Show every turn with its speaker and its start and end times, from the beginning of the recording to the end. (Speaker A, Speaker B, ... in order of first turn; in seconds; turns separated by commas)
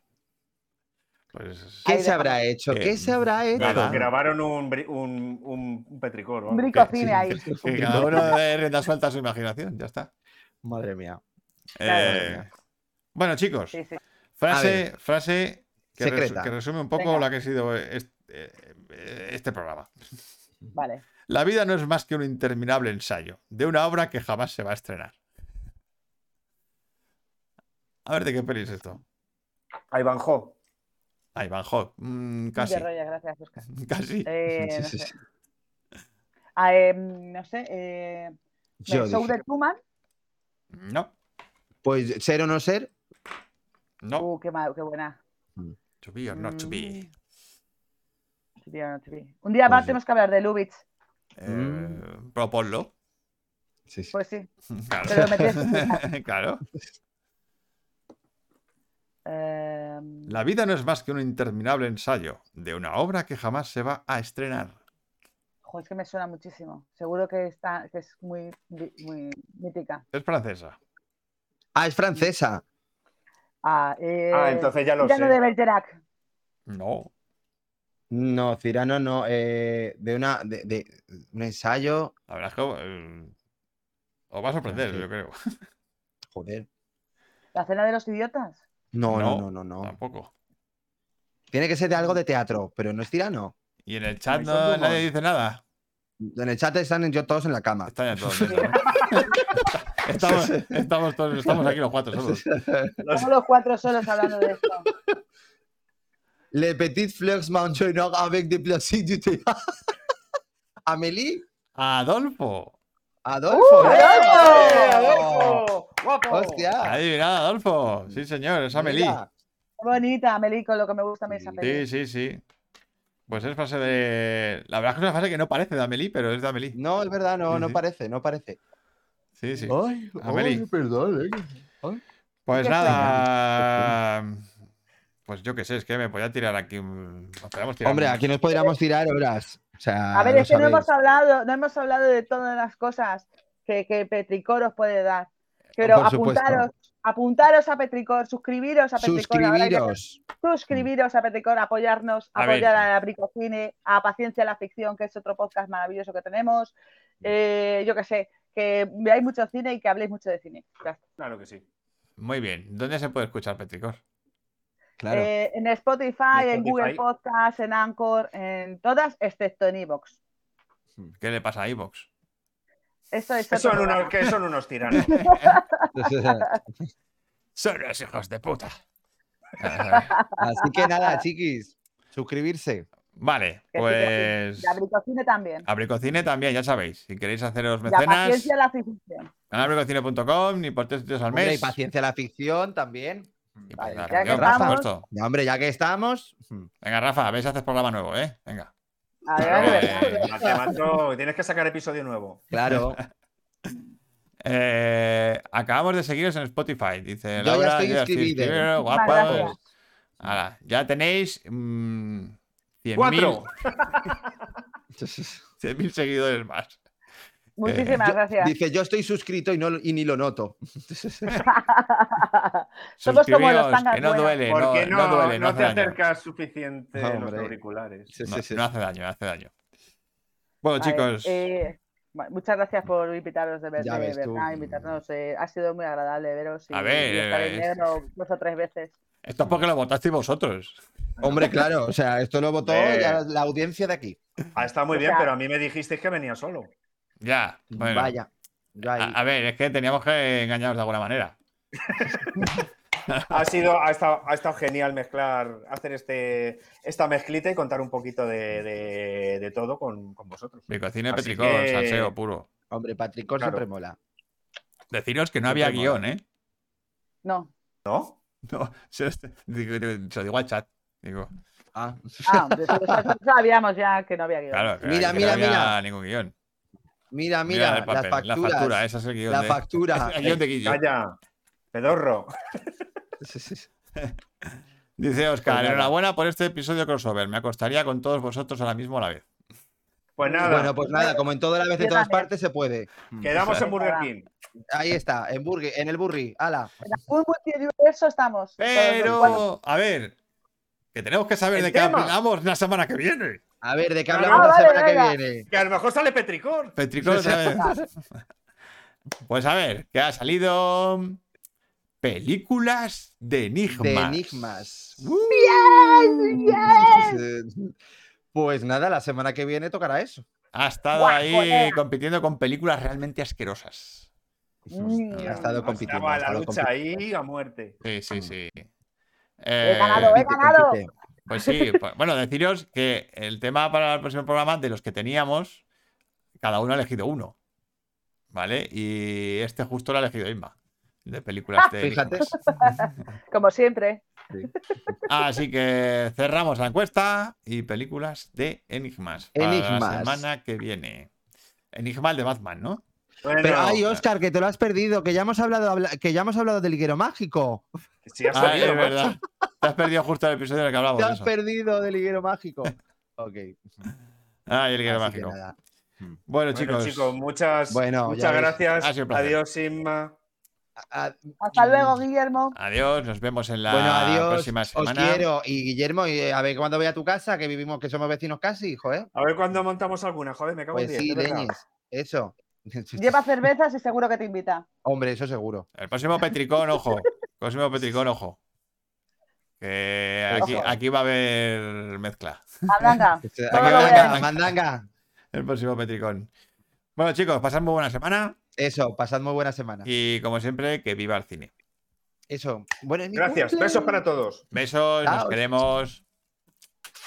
Speaker A: 1.3-1.9, Speaker B: 1.9-4.1, Speaker C: 1.9-2.4, Speaker A: 2.7-4.0, Speaker D: 3.6-6.7, Speaker C: 6.5-8.2, Speaker A: 6.8-10.1, Speaker B: 6.9-8.3, Speaker B: 10.6-11.2, Speaker A: 11.8-12.5, Speaker C: 11.8-12.2, Speaker B: 12.0-12.5, Speaker A: 13.2-13.8, Speaker C: 13.7-14.0, Speaker A: 14.4-19.9, Speaker B: 14.5-14.9, Speaker B: 16.0-16.5, Speaker C: 17.0-17.2, Speaker C: 20.7-21.0, Speaker A: 21.3-25.1, Speaker A: 28.1-29.0, Speaker D: 29.9-30.6, Speaker A: 31.4-32.9, Speaker C: 32.6-33.7, Speaker A: 33.8-34.3, Speaker C: 34.3-35.1, Speaker B: 34.5-35.1, Speaker C: 36.6-38.4, Speaker B: 38.9-39.4, Speaker C: 38.9-39.8, Speaker A: 40.7-41.1, Speaker B: 41.8-42.9, Speaker A: 44.0-44.3, Speaker C: 44.2-45.2, Speaker A: 46.0-47.1, Speaker C: 46.3-47.1, Speaker C: 48.6-50.8, Speaker B: 49.7-50.0, Speaker A: 51.4-52.9, Speaker B: 51.5-52.0, Speaker B: 53.9-54.1, Speaker C: 54.1-54.5, Speaker A: 54.8-56.6, Speaker C: 55.1-56.0, Speaker B: 55.1-55.4, Speaker C: 59.3-60.3, Speaker A: 60.3-64.8, Speaker C: 65.7-70.0, Speaker A: 70.1-70.8, Speaker B: 71.8-72.6, Speaker C: 73.6-76.0, Speaker D: 74.3-75.4, Speaker A: 76.7-77.1, Speaker B: 78.1-82.1, Speaker A: 82.3-83.3, Speaker A: 84.3-85.4, Speaker B: 84.7-85.1, Speaker B: 86.3-86.7, Speaker C: 87.5-88.6, Speaker B: 88.9-89.9, Speaker A: 89.1-90.3, Speaker B: 91.5-93.5, Speaker A: 93.9-95.6, Speaker B: 96.2-98.8, Speaker A: 97.9-102.4, Speaker C: 98.9-99.4, Speaker B: 100.1-100.8, Speaker B: 101.4-103.0, Speaker D: 103.0-103.3, Speaker C: 103.1-104.9, Speaker B: 106.5-109.8, Speaker B: 110.9-111.4, Speaker A: 111.8-112.7, Speaker B: 113.2-115.7, Speaker C: 113.5-115.2, Speaker D: 113.8-116.7, Speaker B: 116.3-117.0, Speaker A: 116.8-119.2, Speaker B: 118.7-119.3, Speaker C: 119.8-121.9, Speaker B: 121.3-121.6, Speaker A: 121.6-122.4, Speaker A: 123.3-126.8, Speaker B: 126.7-128.6, Speaker A: 127.5-127.8, Speaker A: 129.4-130.7, Speaker B: 129.6-132.0, Speaker A: 132.5-134.5, Speaker C: 132.6-133.1, Speaker B: 132.8-133.9, Speaker A: 135.3-138.3, Speaker B: 137.8-140.9, Speaker C: 140.1-161.0, Speaker B: 145.8-146.7, Speaker B: 149.0-150.2, Speaker A: 152.4-152.8, Speaker D: 161.2-161.6, Speaker A: 162.2-164.0, Speaker B: 165.0-165.3, Speaker C: 165.1-170.2, Speaker D: 166.3-167.0, Speaker A: 171.2-172.1, Speaker C: 173.1-174.1, Speaker D: 173.5-175.2, Speaker A: 175.0-175.6, Speaker C: 175.1-176.6, Speaker B: 175.9-176.9, Speaker A: 177.6-178.8, Speaker A: 179.6-180.1, Speaker C: 179.9-181.2, Speaker B: 180.4-182.9, Speaker A: 183.2-184.8, Speaker C: 183.7-185.7, Speaker A: 185.7-188.5, Speaker C: 187.9-189.3, Speaker A: 189.5-191.8, Speaker B: 191.3-196.7, Speaker A: 193.7-195.1, Speaker C: 193.8-194.9, Speaker A: 196.8-198.7, Speaker C: 199.3-200.4, Speaker D: 199.4-202.4, Speaker A: 199.4-200.3, Speaker B: 202.5-203.0, Speaker A: 202.7-203.0, Speaker A: 204.4-209.6, Speaker B: 207.4-209.6, Speaker C: 208.8-209.6, Speaker A: 210.2-213.4, Speaker D: 213.0-214.3, Speaker B: 215.0-215.4, Speaker A: 215.6-216.8, Speaker C: 217.6-218.5, Speaker A: 217.7-218.1, Speaker B: 217.8-221.4, Speaker C: 221.5-224.4, Speaker A: 223.0-226.0, Speaker D: 224.5-228.1, Speaker B: 226.9-227.5, Speaker B: 228.1-228.7, Speaker A: 228.3-229.5, Speaker A: 230.6-231.4, Speaker C: 230.8-239.0, Speaker B: 233.8-235.0, Speaker A: 236.7-237.8, Speaker A: 239.2-240.8, Speaker D: 241.2-241.6, Speaker B: 241.2-244.2, Speaker D: 242.7-243.2, Speaker D: 244.6-246.7, Speaker C: 244.9-245.3, Speaker A: 247.2-248.2, Speaker B: 247.7-249.2, Speaker A: 248.9-251.4, Speaker D: 251.8-252.5, Speaker A: 253.1-253.4, Speaker D: 253.3-262.1, Speaker A: 260.7-262.5, Speaker B: 262.7-264.0, Speaker A: 264.9-266.2, Speaker B: 265.5-266.0, Speaker C: 267.2-267.5, Speaker D: 267.9-268.2, Speaker A: 268.5-271.3, Speaker B: 271.7-273.1, Speaker C: 272.3-274.8, Speaker A: 274.5-276.3, Speaker B: 274.8-275.8, Speaker B: 277.1-280.4, Speaker A: 277.5-280.8, Speaker D: 280.6-281.2, Speaker D: 281.7-282.7, Speaker B: 283.2-283.7, Speaker A: 284.0-289.3, Speaker B: 285.5-285.9, Speaker D: 290.2-290.7, Speaker C: 290.2-291.2, Speaker B: 290.4-293.3, Speaker C: 291.8-292.3, Speaker D: 293.2-294.3, Speaker A: 293.4-293.6, Speaker C: 293.6-294.1, Speaker B: 294.7-296.9, Speaker C: 296.8-299.4, Speaker A: 298.6-300.2, Speaker B: 299.1-299.4, Speaker A: 300.9-303.4, Speaker D: 301.6-302.1, Speaker B: 303.6-305.5, Speaker D: 304.1-304.8, Speaker C: 304.3-305.2, Speaker D: 305.5-306.8, Speaker A: 306.8-307.9, Speaker B: 307.0-307.6, Speaker C: 307.3-307.8, Speaker A: 309.3-311.2, Speaker A: 312.0-316.1, Speaker B: 313.7-315.1, Speaker C: 315.3-317.2, Speaker B: 316.3-317.8, Speaker B: 318.3-320.2, Speaker A: 320.5-324.1, Speaker C: 320.9-321.8, Speaker B: 324.7-326.8, Speaker C: 324.7-325.6, Speaker A: 325.1-325.4, Speaker D: 325.6-327.8, Speaker A: 327.8-328.7, Speaker A: 329.4-330.2, Speaker C: 329.6-330.8, Speaker B: 329.9-330.9, Speaker A: 331.3-335.6, Speaker A: 336.4-337.4, Speaker A: 338.3-340.6, Speaker A: 341.1-342.2, Speaker B: 341.8-342.4, Speaker C: 342.4-344.8, Speaker B: 344.3-344.9, Speaker A: 345.1-351.1, Speaker B: 349.4-350.2, Speaker A: 351.7-352.8, Speaker D: 353.2-353.8, Speaker B: 353.4-357.7, Speaker D: 358.1-359.2, Speaker A: 358.3-361.3, Speaker B: 360.9-363.6, Speaker A: 364.5-365.4, Speaker B: 364.9-366.2, Speaker A: 366.3-367.1, Speaker D: 366.5-370.1, Speaker B: 367.7-368.6, Speaker A: 368.8-369.4, Speaker B: 370.8-372.0, Speaker C: 371.4-372.6, Speaker A: 372.6-375.3, Speaker B: 373.7-379.1, Speaker D: 379.1-381.5, Speaker B: 380.7-383.3, Speaker C: 383.0-384.7, Speaker B: 384.8-385.7, Speaker A: 385.8-388.4, Speaker A: 389.6-392.5, Speaker B: 390.3-390.8, Speaker C: 392.7-394.2, Speaker B: 393.3-394.9, Speaker A: 393.5-394.5, Speaker A: 395.3-396.3, Speaker A: 397.0-398.4, Speaker B: 398.6-399.9, Speaker A: 399.9-401.5, Speaker B: 402.3-404.0, Speaker D: 403.1-404.4, Speaker A: 404.5-406.0, Speaker B: 405.0-405.4